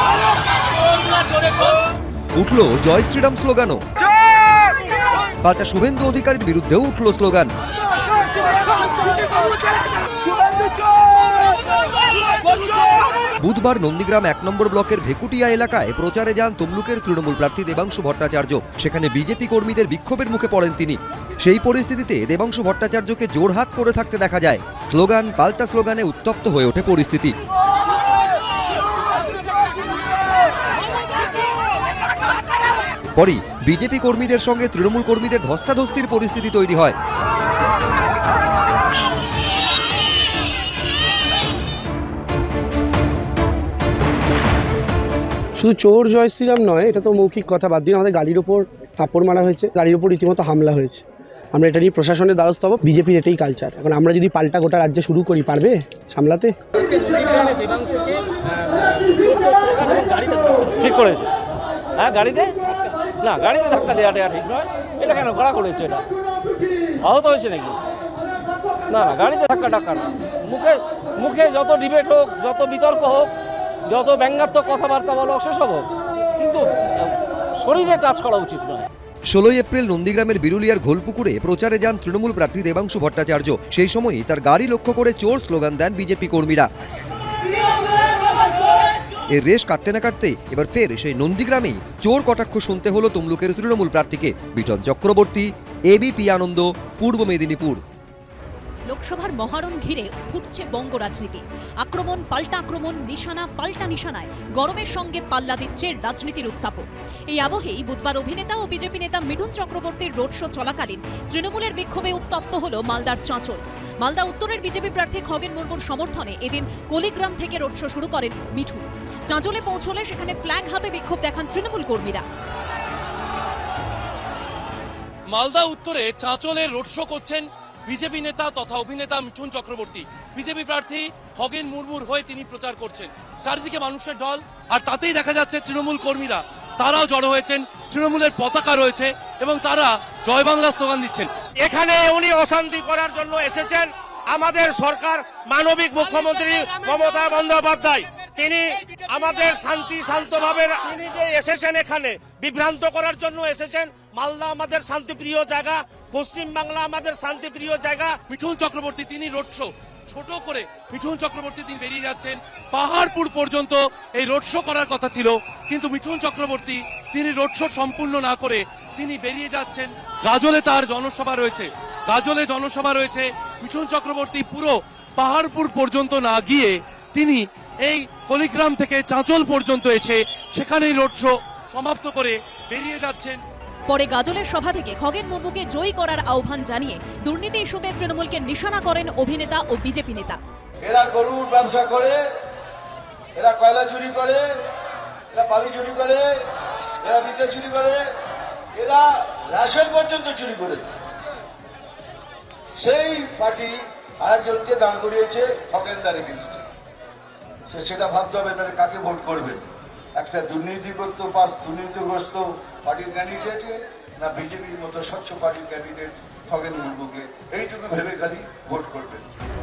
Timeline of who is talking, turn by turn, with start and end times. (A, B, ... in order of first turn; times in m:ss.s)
0:02.4-0:03.8 A
0:05.4-0:07.5 A
0:13.4-0:27.3 A
0:33.2-0:37.0 A
0:45.6-0:51.0 B
0:51.5-0:56.5 B
0:59.3-1:01.3 C
1:02.0-1:02.6 C
1:03.2-1:06.1 C
1:07.0-1:07.8 C
1:08.9-1:13.3 C
1:13.9-1:18.9 C
1:19.3-1:26.7 A
1:29.3-1:37.8 A
1:38.9-2:02.2 D
2:05.3-2:21.3 E
2:21.6-2:38.2 F
2:38.3-3:03.4 E
3:03.9-3:10.4 D
3:10.8-3:12.2 G
3:13.3-3:14.4 G
3:15.3-3:16.3 G
3:17.0-3:18.0 G
3:18.7-3:21.0 G
3:22.8-3:26.6 G
3:27.7-3:29.6 G
3:30.2-3:39.2 G